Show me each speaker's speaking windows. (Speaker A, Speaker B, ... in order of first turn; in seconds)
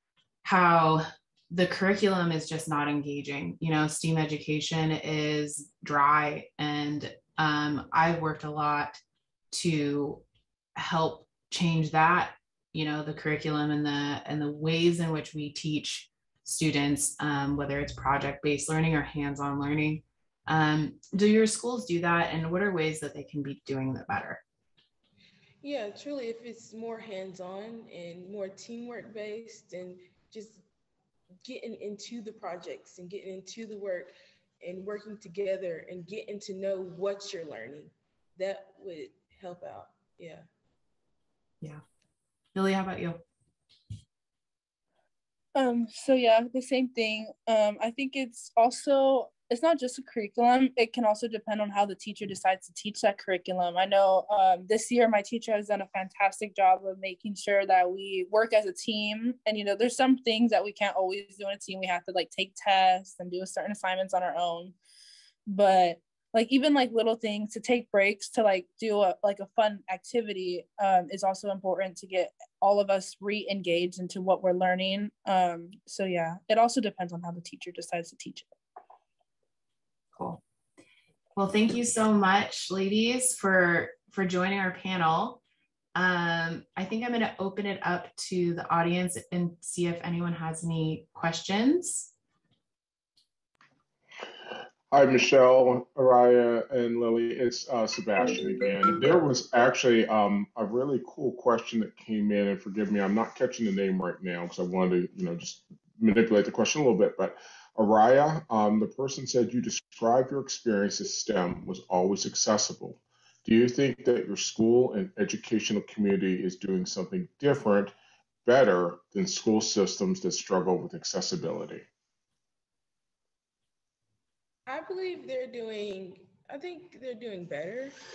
Speaker A: 0.4-10.2, 10.8-24.4, 42.5-43.2, 80.2-80.4, 81.3-85.4, 85.9-92.1
Speaker B: 25.6-30.6, 31.4-40.5, 124.7-128.0
Speaker C: 45.5-64.7, 65.5-78.5
Speaker D: 94.9-117.9, 118.4-121.8